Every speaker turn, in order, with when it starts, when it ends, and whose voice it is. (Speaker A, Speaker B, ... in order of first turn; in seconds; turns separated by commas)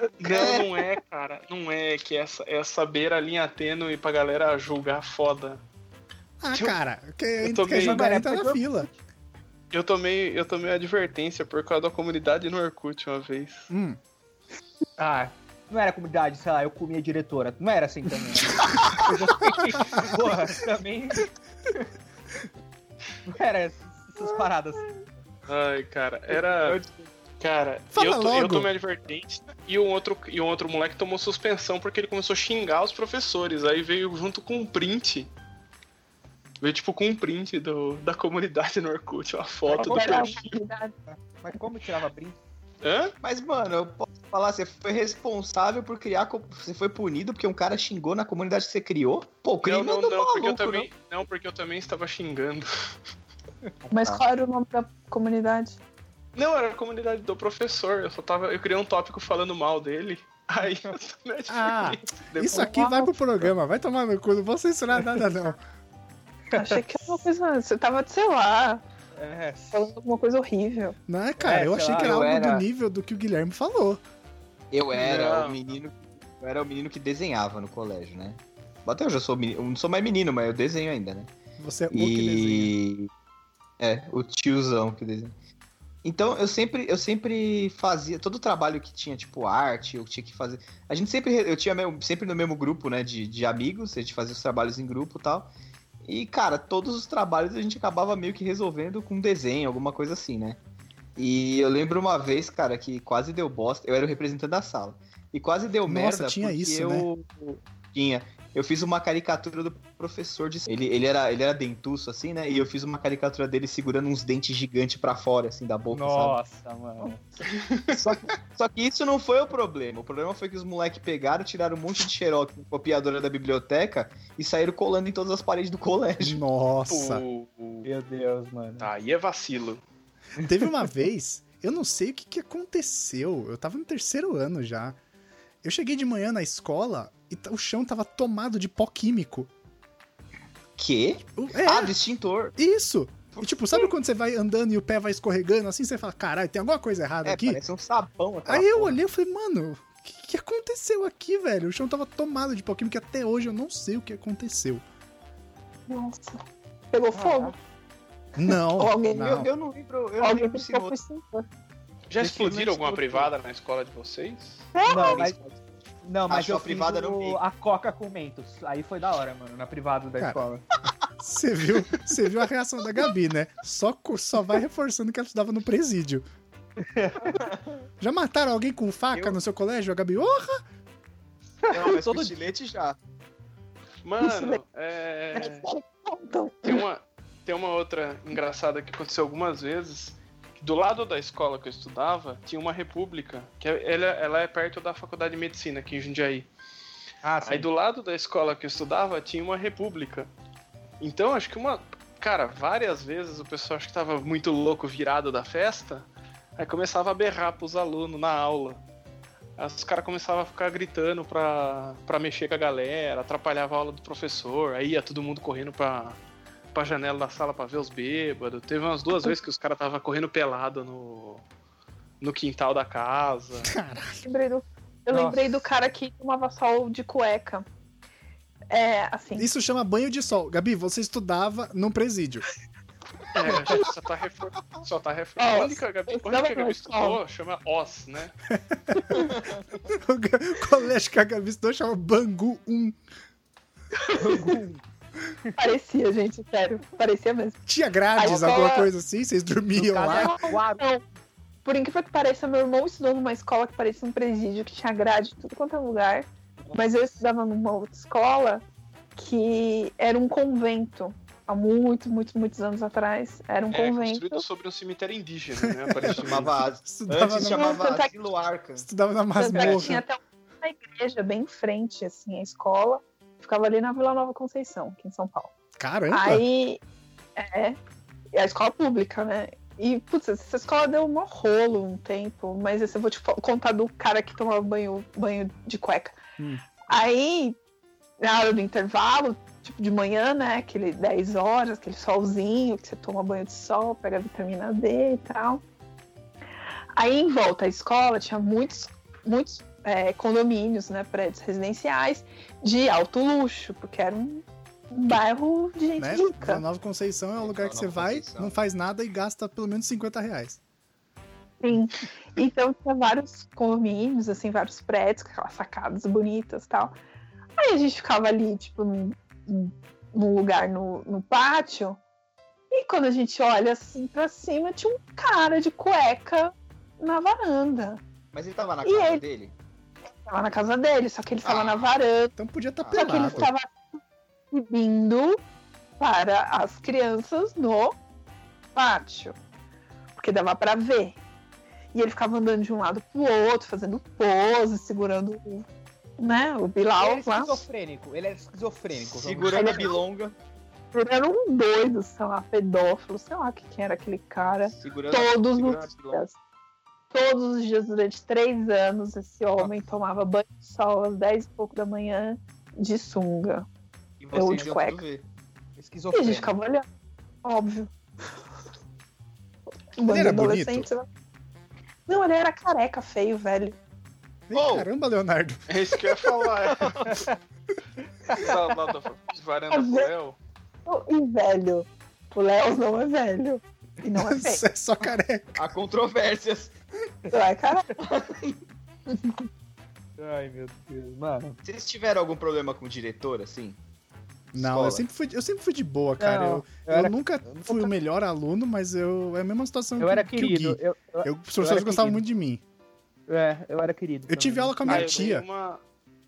Speaker A: 0.2-5.6, Speaker B: 0.2-0.8, Speaker C: 6.4-8.9, Speaker A: 6.5-6.8, Speaker A: 7.4-8.0, Speaker D: 7.7-8.9, Speaker A: 9.7-13.7, Speaker C: 13.7-14.0, Speaker D: 15.0-21.3, Speaker C: 19.8-20.1, Speaker D: 23.3-24.9, Speaker A: 25.5-26.8, Speaker B: 26.3-27.1, Speaker A: 27.4-35.3, Speaker C: 27.9-28.7, Speaker A: 36.6-40.5, Speaker D: 39.7-40.3, Speaker E: 39.7-40.9, Speaker D: 41.1-42.4, Speaker A: 42.8-43.1, Speaker B: 43.2-50.9, Speaker A: 49.6-52.9, Speaker E: 53.9-55.8, Speaker B: 53.9-54.2, Speaker A: 56.3-62.8, Speaker C: 61.5-65.6, Speaker E: 62.5-63.1, Speaker D: 66.5-66.8, Speaker E: 66.5-68.8, Speaker D: 69.2-69.8, Speaker E: 69.7-71.0, Speaker C: 71.1-74.0, Speaker D: 71.4-72.4, Speaker B: 72.0-72.7, Speaker B: 74.7-81.3, Speaker A: 74.9-75.6, Speaker C: 81.6-82.7, Speaker B: 81.9-83.1, Speaker B: 83.8-85.3, Speaker B: 86.0-95.5, Speaker B: 96.0-100.6, Speaker B: 101.2-116.4, Speaker C: 105.9-107.1, Speaker D: 115.9-117.2, Speaker A: 117.4-118.2, Speaker B: 117.9-126.4, Speaker C: 126.2-127.2, Speaker A: 126.9-127.9, Speaker D: 127.8-128.9, Speaker A: 128.8-129.8, Speaker C: 130.4-135.0, Speaker C: 135.6-139.5, Speaker B: 140.8-142.6, Speaker C: 141.4-141.9, Speaker C: 142.6-147.6, Speaker B: 143.3-143.9, Speaker B: 147.2-149.0, Speaker C: 148.5-154.8, Speaker E: 155.9-157.5, Speaker D: 157.1-157.5, Speaker C: 158.3-159.5, Speaker E: 158.5-159.3, Speaker B: 159.1-160.9, Speaker E: 160.2-161.4, Speaker A: 162.1-164.7, Speaker D: 162.2-163.3, Speaker E: 164.7-165.3, Speaker D: 164.9-165.4, Speaker B: 165.0-165.5, Speaker D: 166.0-170.6, Speaker B: 166.3-167.4, Speaker C: 171.2-176.2, Speaker D: 176.8-177.5, Speaker C: 178.0-180.6, Speaker D: 181.6-182.3, Speaker B: 181.7-183.0, Speaker A: 184.0-185.7, Speaker E: 184.2-184.6, Speaker E: 185.3-186.8, Speaker A: 186.6-196.5, Speaker D: 197.2-197.7, Speaker A: 197.4-200.3, Speaker A: 201.0-208.8, Speaker A: 209.6-216.2, Speaker A: 216.7-221.4, Speaker A: 222.2-223.7, Speaker C: 223.6-224.2, Speaker E: 224.2-227.6, Speaker D: 225.1-225.5, Speaker E: 228.7-229.5, Speaker C: 229.4-232.4, Speaker A: 233.3-238.3, Speaker E: 235.4-237.2, Speaker C: 238.5-239.3, Speaker B: 239.2-239.5, Speaker C: 239.9-243.0, Speaker E: 244.0-244.6, Speaker D: 244.2-244.8, Speaker E: 245.6-247.6, Speaker C: 247.7-250.5, Speaker E: 248.1-248.9, Speaker D: 249.8-250.8, Speaker E: 250.1-251.0, Speaker E: 251.6-258.6, Speaker E: 259.1-264.4, Speaker A: 263.7-266.5, Speaker C: 265.6-267.8, Speaker B: 266.0-268.9, Speaker E: 267.4-268.1, Speaker C: 268.8-270.0, Speaker E: 269.4-275.5, Speaker D: 269.5-269.9, Speaker C: 275.8-276.4, Speaker E: 276.1-276.8, Speaker E: 277.4-277.8, Speaker E: 278.3-286.2, Speaker E: 286.9-287.6, Speaker E: 288.2-295.6, Speaker E: 296.9-306.6, Speaker C: 306.0-310.6, Speaker B: 307.4-308.6, Speaker E: 311.6-316.9, Speaker E: 317.6-322.0, Speaker E: 322.7-328.0, Speaker B: 328.3-329.5, Speaker E: 328.8-329.2, Speaker E: 330.2-332.3, Speaker B: 331.4-331.9, Speaker C: 332.4-333.5, Speaker B: 332.8-333.5, Speaker E: 332.9-334.0, Speaker E: 334.5-335.4, Speaker E: 336.0-338.0, Speaker E: 338.7-339.4, Speaker E: 340.1-341.2, Speaker E: 341.9-345.6, Speaker E: 346.2-347.6, Speaker D: 347.0-349.9, Speaker B: 349.0-350.3, Speaker E: 349.5-350.0, Speaker E: 350.9-356.4, Speaker B: 354.7-356.2, Speaker E: 357.1-363.6, Speaker B: 364.2-365.2, Speaker E: 364.3-365.0, Speaker D: 365.8-366.5, Speaker E: 366.1-366.8, Speaker E: 367.4-367.9, Speaker E: 370.0-371.1, Speaker C: 370.1-370.9, Speaker E: 372.1-373.8, Speaker C: 374.5-375.6, Speaker B: 374.5-374.9, Speaker A: 375.7-377.3, Speaker B: 376.8-377.2, Speaker A: 378.3-380.4, Speaker E: 379.7-380.1, Speaker E: 380.9-384.6, Speaker C: 384.1-385.6, Speaker B: 385.5-386.7, Speaker E: 387.3-388.0, Speaker B: 388.0-388.6, Speaker E: 389.1-389.4, Speaker D: 390.2-391.6, Speaker B: 391.6-393.8, Speaker B: 394.5-395.0, Speaker C: 394.5-402.6, Speaker D: 396.2-397.9, Speaker D: 400.0-402.2, Speaker D: 403.3-405.2, Speaker C: 404.3-405.4, Speaker A: 404.9-405.8